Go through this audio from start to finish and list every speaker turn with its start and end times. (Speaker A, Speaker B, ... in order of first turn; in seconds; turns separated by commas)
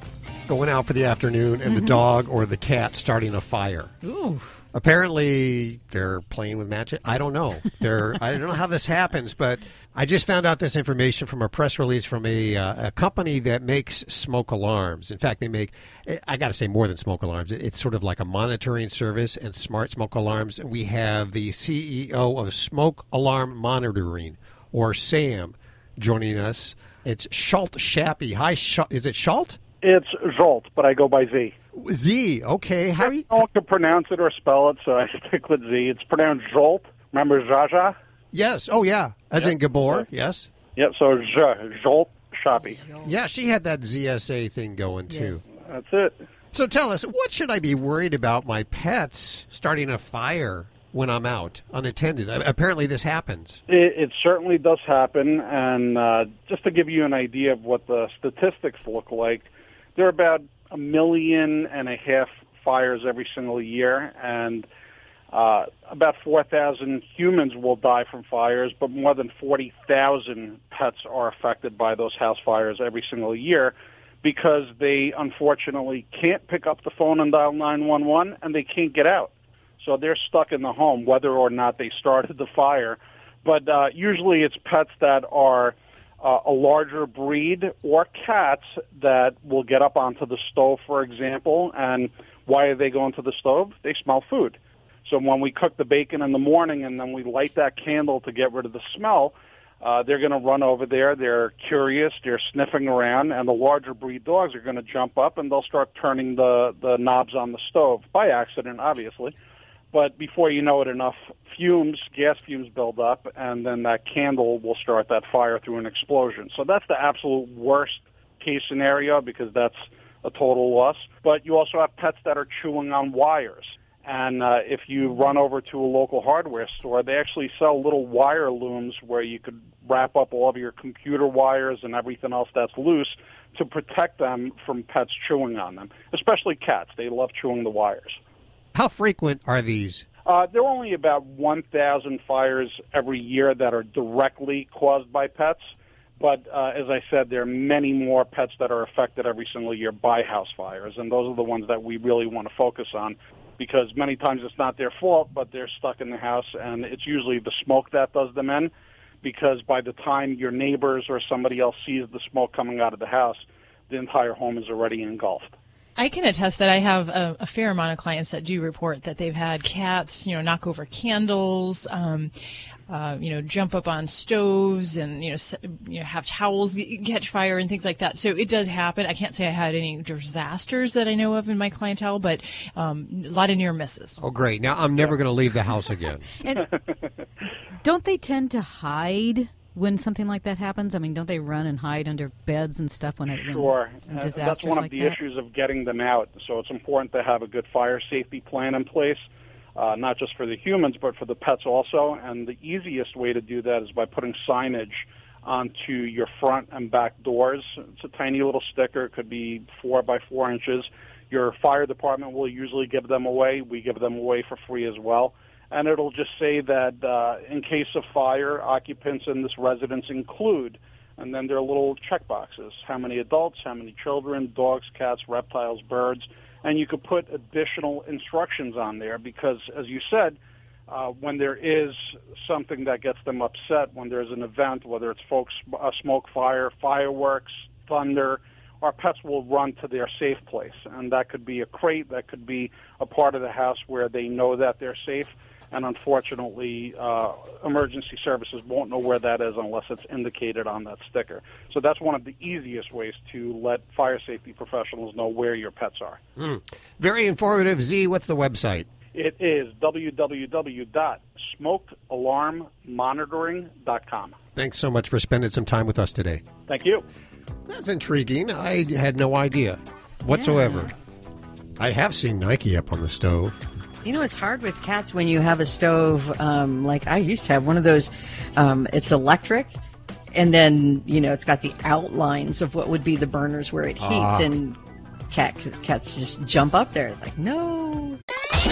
Speaker A: 0.5-3.9, Speaker B: 4.0-4.5, Speaker A: 4.7-29.6, Speaker C: 29.8-31.5, Speaker A: 31.7-33.4, Speaker C: 33.0-37.9, Speaker A: 38.3-40.5, Speaker C: 39.4-40.1, Speaker C: 40.8-42.8, Speaker A: 43.0-45.4, Speaker B: 45.1-45.4, Speaker C: 45.5-46.2, Speaker A: 46.5-53.6, Speaker C: 53.7-64.7, Speaker C: 65.3-109.3, Speaker C: 109.9-138.2, Speaker A: 138.7-140.1, Speaker C: 140.2-158.7, Speaker C: 159.2-165.5, Speaker D: 166.0-172.3, Speaker D: 172.9-184.2, Speaker A: 184.2-186.3, Speaker B: 186.4-186.7, Speaker B: 187.8-195.2, Speaker C: 193.3-256.2, Speaker A: 256.4-258.9, Speaker C: 259.1-264.4, Speaker A: 264.6-266.4, Speaker C: 266.7-267.0, Speaker A: 267.7-270.9, Speaker A: 271.8-273.6, Speaker E: 274.0-279.8, Speaker E: 280.3-284.8, Speaker A: 284.0-284.3, Speaker E: 285.3-288.2